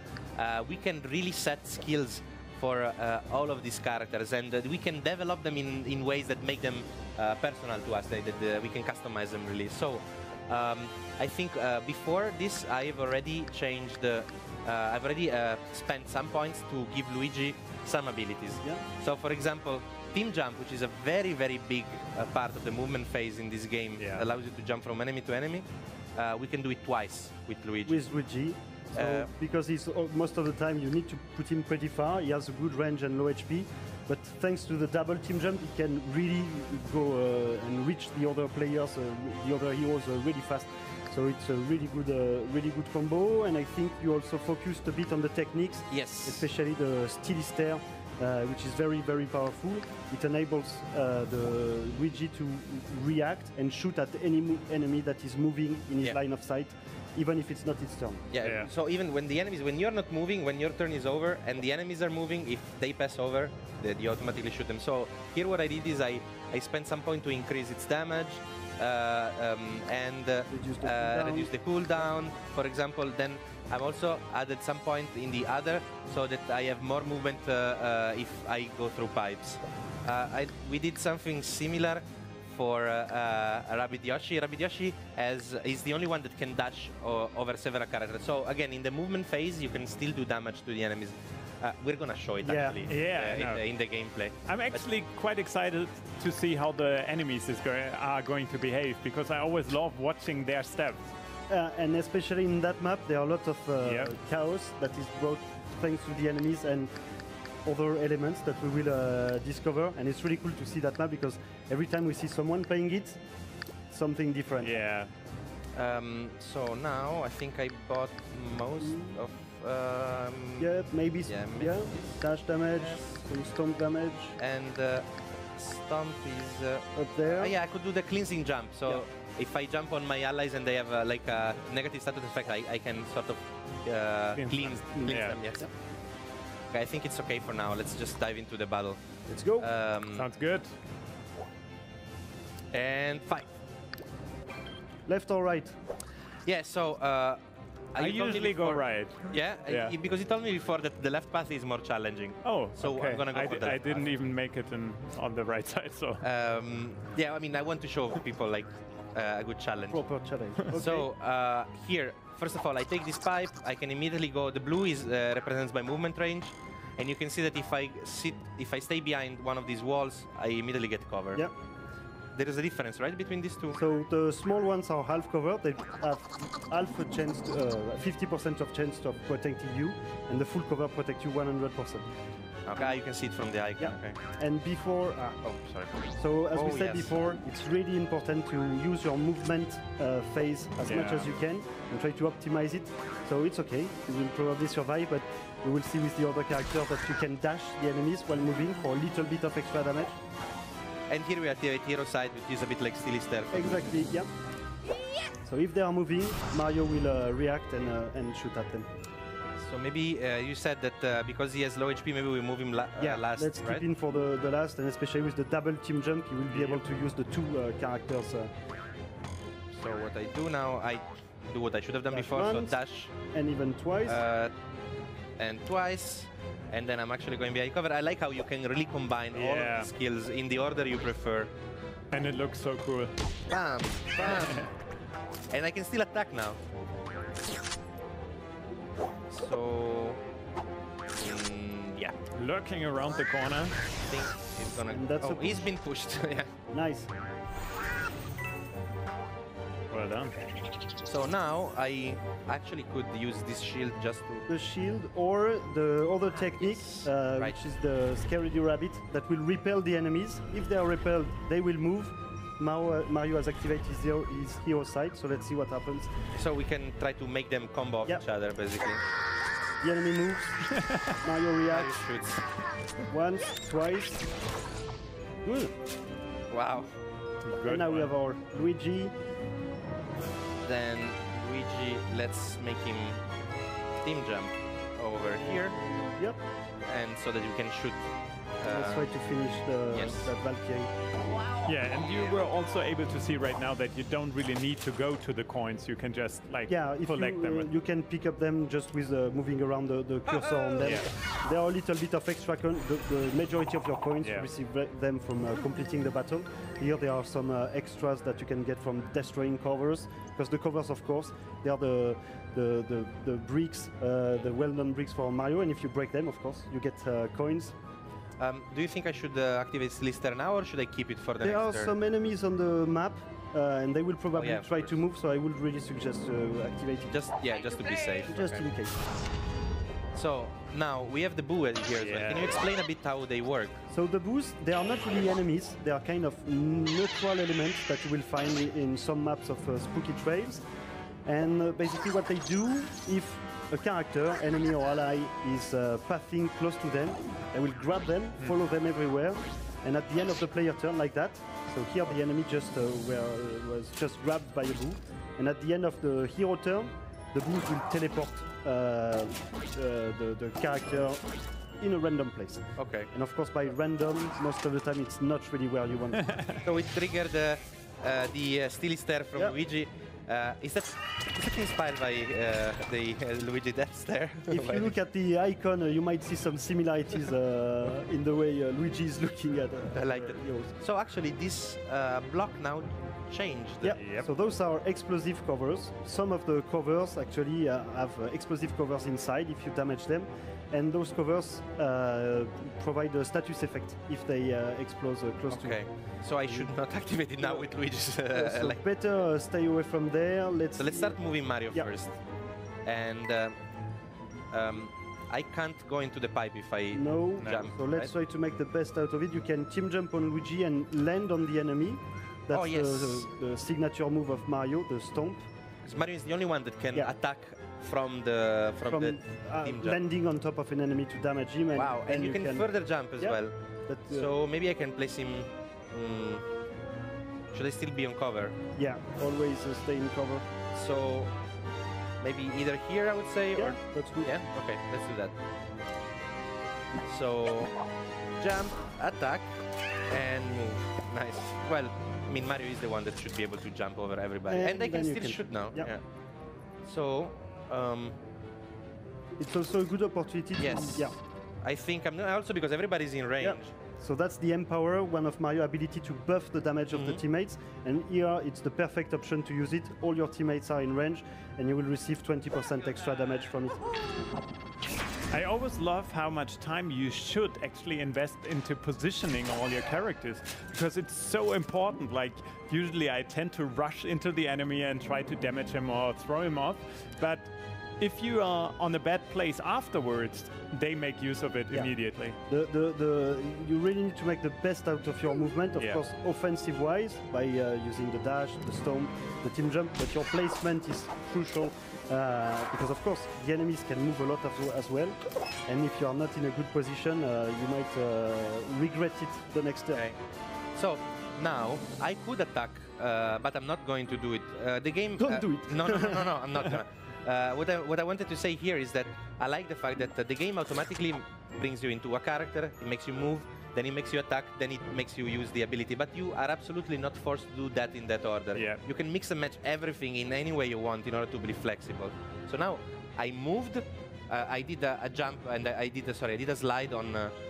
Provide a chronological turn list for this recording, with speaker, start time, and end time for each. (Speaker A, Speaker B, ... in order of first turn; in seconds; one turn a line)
Speaker A: 0.3-28.0
Speaker B: 24.0-24.2
Speaker C: 27.9-58.3
Speaker A: 28.9-29.3
Speaker A: 45.9-46.5
Speaker A: 58.3-94.8
Speaker B: 58.4-58.7
Speaker C: 70.5-71.5
Speaker C: 92.4-92.9
Speaker B: 92.9-93.7
Speaker B: 94.5-101.1
Speaker C: 101.5-106.9
Speaker B: 103.8-104.1
Speaker C: 107.7-113.2
Speaker C: 113.9-114.8
Speaker B: 114.6-115.1
Speaker A: 115.8-122.2
Speaker C: 118.8-119.2
Speaker C: 120.6-124.4
Speaker A: 122.8-123.2
Speaker A: 124.4-135.7
Speaker C: 127.0-127.6
Speaker B: 134.4-135.4
Speaker C: 134.9-135.7
Speaker A: 136.7-140.3
Speaker C: 139.3-139.7
Speaker B: 140.2-140.7
Speaker A: 142.7-143.5
Speaker C: 145.1-145.8
Speaker A: 146.5-147.4
Speaker A: 147.9-154.1
Speaker B: 148.0-149.9
Speaker B: 152.4-156.2
Speaker A: 156.2-160.0
Speaker C: 159.9-161.1
Speaker A: 160.7-171.5
Speaker A: 172.3-173.8
Speaker C: 173.8-182.1
Speaker A: 182.7-184.2
Speaker C: 183.8-185.4
Speaker A: 185.4-186.0
Speaker C: 186.2-200.2
Speaker A: 186.5-187.1
Speaker B: 190.9-191.3
Speaker A: 201.1-204.0
Speaker C: 203.5-204.3
Speaker C: 205.4-208.9
Speaker A: 209.6-213.8
Speaker C: 213.0-218.5
Speaker A: 219.7-223.1
Speaker C: 222.1-222.8
Speaker C: 223.3-224.2
Speaker A: 224.1-224.5
Speaker A: 225.4-231.5
Speaker B: 229.3-229.9
Speaker B: 232.1-233.1
Speaker A: 233.5-234.7
Speaker A: 235.5-236.6
Speaker A: 239.3-240.2
Speaker A: 241.2-242.2
Speaker B: 242.3-243.8
Speaker A: 244.1-246.5
Speaker C: 244.9-245.7
Speaker C: 246.7-247.1
Speaker B: 249.9-250.3
Speaker A: 251.1-254.5
Speaker C: 254.5-266.1
Speaker A: 256.3-257.6
Speaker A: 266.3-269.0
Speaker C: 269.8-272.0
Speaker A: 271.7-272.5
Speaker C: 273.1-274.3
Speaker C: 275.4-275.8
Speaker A: 276.5-276.9
Speaker B: 277.4-278.1
Speaker C: 277.6-279.1
Speaker A: 280.6-283.2
Speaker A: 284.0-285.8
Speaker C: 285.4-286.4
Speaker A: 286.9-289.1
Speaker C: 288.6-290.9
Speaker A: 289.9-290.3
Speaker B: 291.6-297.7
Speaker C: 296.7-317.8
Speaker A: 300.4-300.9
Speaker B: 300.8-301.1
Speaker A: 318.4-321.9
Speaker C: 321.4-327.2
Speaker A: 324.4-325.0
Speaker A: 327.1-328.6
Speaker C: 328.3-329.1
Speaker A: 330.1-333.8
Speaker B: 332.0-332.5
Speaker C: 333.9-340.6
Speaker C: 341.2-361.3
Speaker C: 361.8-366.6
Speaker A: 362.8-363.1
Speaker A: 366.6-374.9
Speaker C: 374.5-380.7
Speaker A: 379.9-384.0
Speaker C: 383.8-395.8
Speaker B: 384.0-384.3
Speaker A: 395.5-398.8
Speaker C: 397.4-397.7
Speaker C: 398.3-401.2
Speaker A: 400.8-402.2
Speaker A: 402.9-403.6
Speaker A: 404.5-408.1
Speaker C: 406.9-415.5
Speaker A: 412.5-413.3
Speaker A: 415.9-420.0
Speaker C: 418.9-422.7
Speaker A: 421.8-423.6
Speaker C: 423.2-424.3
Speaker A: 424.1-426.4
Speaker A: 427.5-428.6
Speaker C: 428.8-430.5
Speaker A: 430.7-431.4
Speaker A: 432.2-435.4
Speaker C: 433.6-434.3
Speaker A: 437.1-437.8
Speaker A: 438.4-446.0
Speaker C: 444.5-445.9
Speaker A: 446.8-448.2
Speaker C: 449.4-451.2
Speaker A: 450.6-453.7
Speaker C: 453.4-463.9
Speaker A: 456.9-457.2
Speaker B: 465.3-482.4
Speaker C: 481.7-500.1
Speaker A: 500.8-527.3
Speaker C: 505.2-506.3
Speaker B: 518.5-518.8